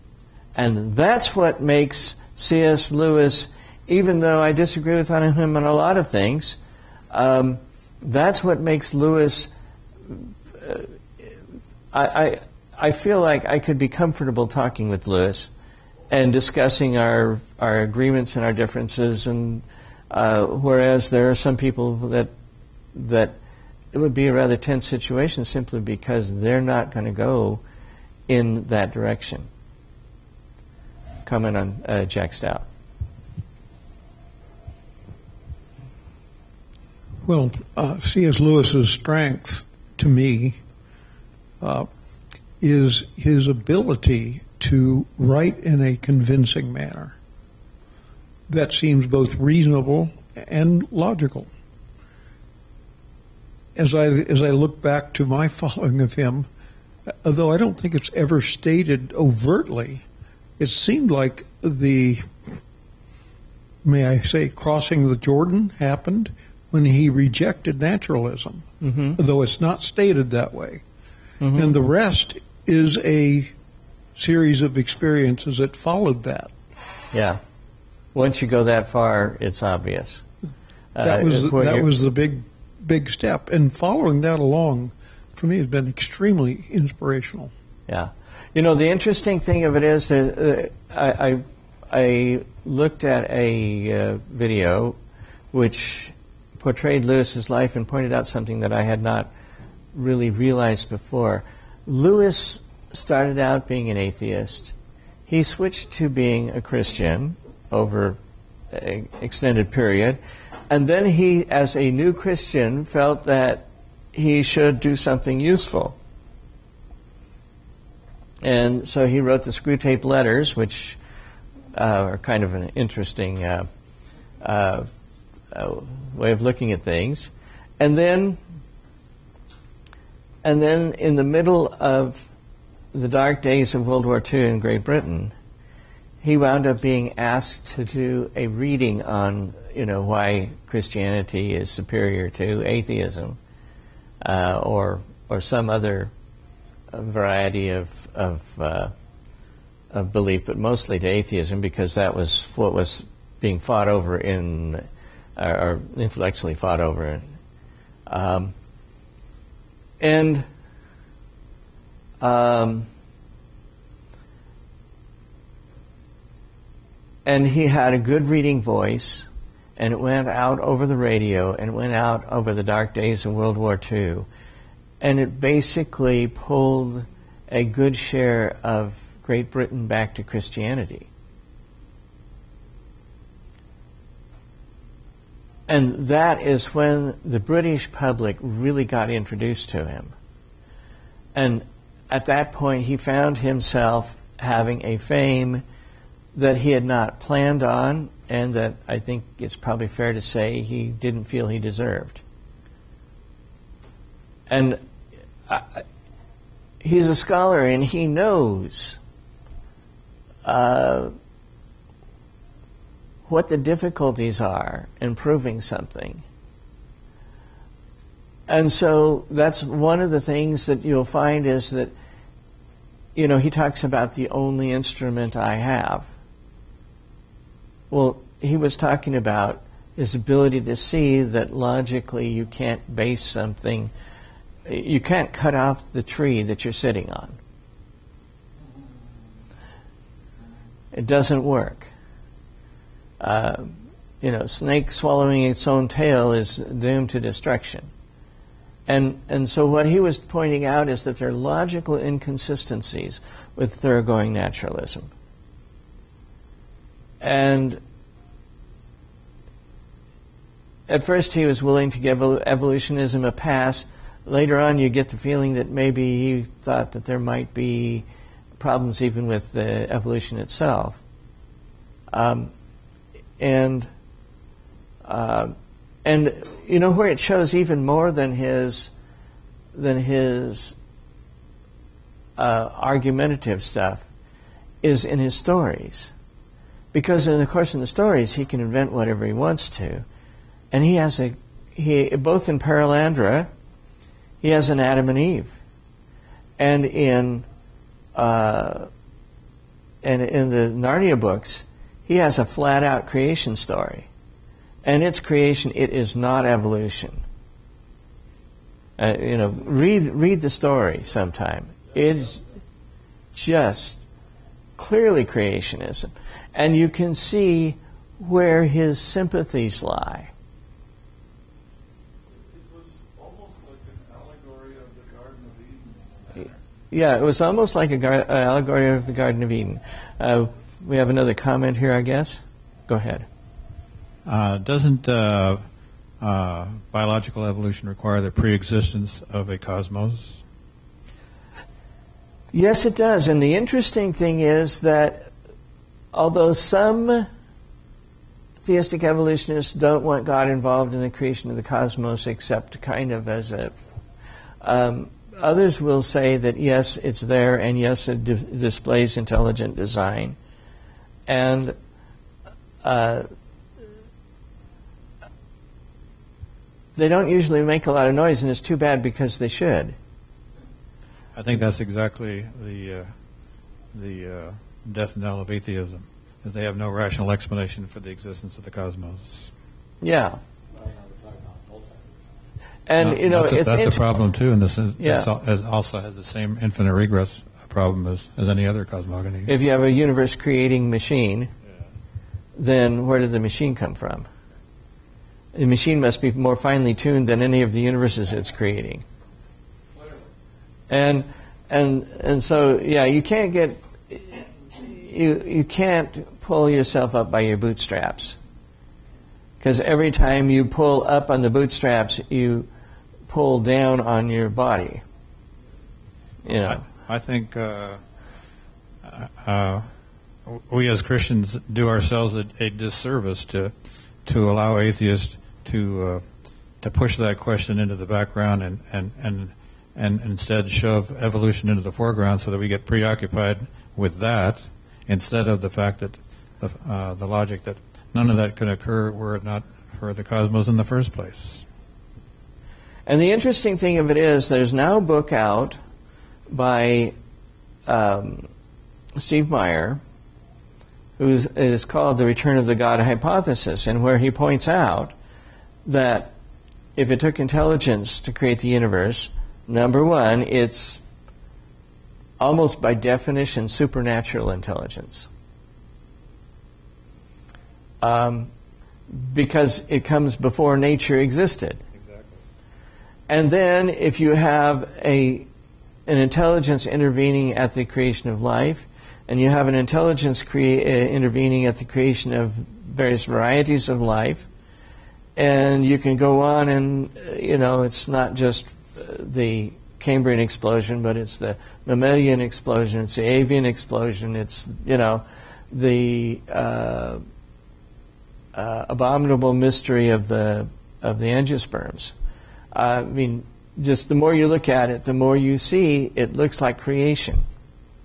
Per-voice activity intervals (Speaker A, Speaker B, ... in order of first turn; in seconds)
Speaker A: 0.6-6.6, 7.1-9.5, 10.1-10.9, 11.9-15.5, 16.1-22.3, 22.9-23.4, 23.9-27.6, 28.3-29.5, 31.3-32.7, 68.8-69.2, 71.4-71.8, 77.1-77.4, 78.1-80.2, 81.0-81.9, 87.9-95.0, 95.5-99.3, 99.9-104.7, 105.3-108.2, 108.7-110.2, 110.7-116.0, 118.4-121.0, 121.7-123.7, 124.4-124.9, 125.5-128.4, 130.4-132.3, 132.9-135.3, 136.2-143.4, 144.2-146.1, 146.9-148.9, 149.9-154.9, 155.4-157.2, 158.1-158.5, 160.0-160.5, 162.2-162.9, 167.3-174.3, 175.0-181.1, 185.7-190.1, 191.3-195.6, 196.3-202.2, 204.5-204.8, 205.5-205.8, 206.8-209.0, 210.4-211.1, 213.3-216.2, 218.5-221.9, 223.2-226.1, 227.9-233.9, 234.7-237.4, 240.9-241.9, 243.2-247.9, 248.9-255.1, 257.2-257.8, 260.9-268.1, 268.6-271.0, 272.1-272.5, 273.4-273.9, 275.1-278.9, 279.8-280.8, 282.4-284.1, 284.8-286.1, 286.9-290.0, 290.7-293.5, 294.4-295.6, 296.6-297.5, 298.1-298.9, 300.0-304.1, 304.8-307.2, 309.0-312.4, 313.4-314.0, 314.8-320.3, 326.9-333.3, 342.5-345.3, 346.1-347.3, 348.6-353.7, 354.6-360.4, 361.3-361.8, 362.8-363.3, 367.0-370.0, 380.0-380.4, 382.9-384.0, 385.0-385.3, 389.5-391.5, 392.6-394.3, 395.6-399.0, 400.9-408.4, 409.6-412.7, 413.3-415.0, 416.5-416.8, 443.1-445.8, 446.5-447.1, 447.9-448.5, 449.2-450.0, 451.2-455.1, 455.9-456.4, 457.0-461.0, 462.4-465.3, 468.0-468.5, 469.1-471.8, 473.3-475.5, 476.1-484.5, 485.4-497.2, 498.6-502.1, 502.7-507.4
Speaker B: 37.2-40.6, 41.6-41.9, 42.6-47.1, 48.5-51.5, 53.8-56.5, 57.2-60.0, 60.6-62.3, 63.8-68.6, 69.2-70.8, 71.5-73.5, 74.2-76.5, 81.0-87.5
Speaker C: 322.3-326.6
Speaker D: 334.3-335.6, 336.2-340.4, 371.4-373.1, 373.9-379.5, 383.0-389.5, 416.7-418.0, 419.1-419.9, 420.5-423.7, 424.3-426.2, 426.8-441.6